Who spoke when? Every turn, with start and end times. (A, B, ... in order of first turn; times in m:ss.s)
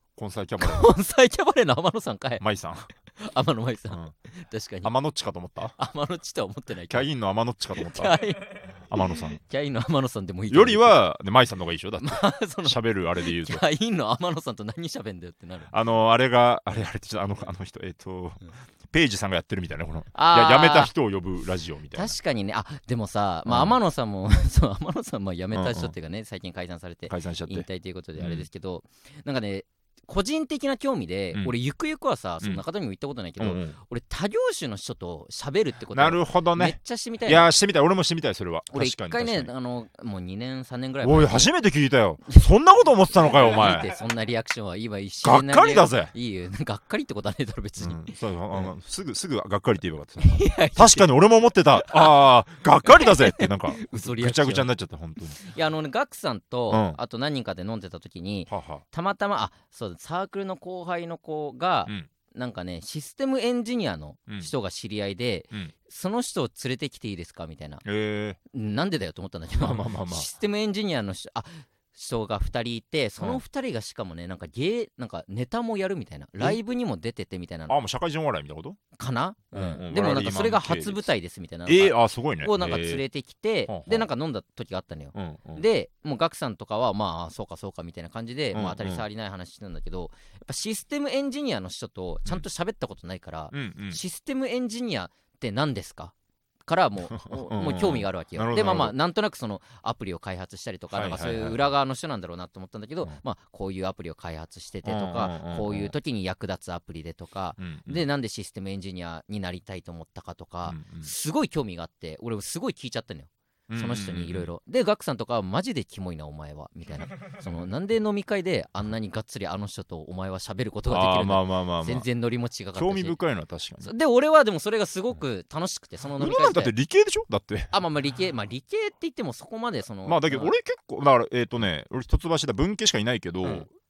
0:00.2-0:00.9 A
0:00.6-0:02.4 B
0:02.4-0:02.9 A
0:03.2-0:04.9 B
0:04.8-0:05.7 A
0:05.8-0:07.1 B
0:06.9-0:08.2 A
0:07.8-0:11.0 B
0:08.9-0:09.4 A
0:10.5-0:13.6 A
0:12.0-0:15.7 B
0:15.7-0:22.1 A
0:20.1-0:20.9 B
0:21.9-0:37.5 B
0:23.5-0:23.8 A
0:25.5-0:25.9 A
0:27.1-0:27.6 A
0:28.2-0:28.5 A
0:33.4-0:33.8 A
0:35.9-0:39.5 A
0:38.7-0:41.5 B
0:41.0-0:43.9 A
0:43.2-0:48.7 B
0:45.2-0:46.1 A
0:47.8-0:55.4 A
0:50.2-0:51.0 B
0:51.8-0:52.2 B
0:52.8-0:54.7 B
0:55.4-1:07.8 B
0:56.7-0:57.0 A
0:58.5-0:58.8 A
1:07.8-1:08.4 A
1:08.5-1:17.7 B
1:09.6-1:10.3 A
1:17.7-1:18.8 A
1:19.0-1:36.1 B
1:19.5-1:21.1 A
1:21.6-1:23.0 A
1:23.7-1:24.1 A
1:25.1-1:25.6 A
1:28.5-1:29.0 A
1:33.5-1:34.0 A
1:36.7-2:03.2 B
1:37.1-1:38.9 A
1:40.9-1:41.6 A
1:44.8-1:45.9 A
1:47.6-1:48.0 A
1:50.6-1:51.1 A
1:53.7-1:54.5 A
2:00.9-2:02.1 A
2:02.7-2:03.9 A
2:03.8-2:06.7 B
2:06.2-2:07.7 A
2:07.7-2:10.5 B
2:10.0-2:13.7 A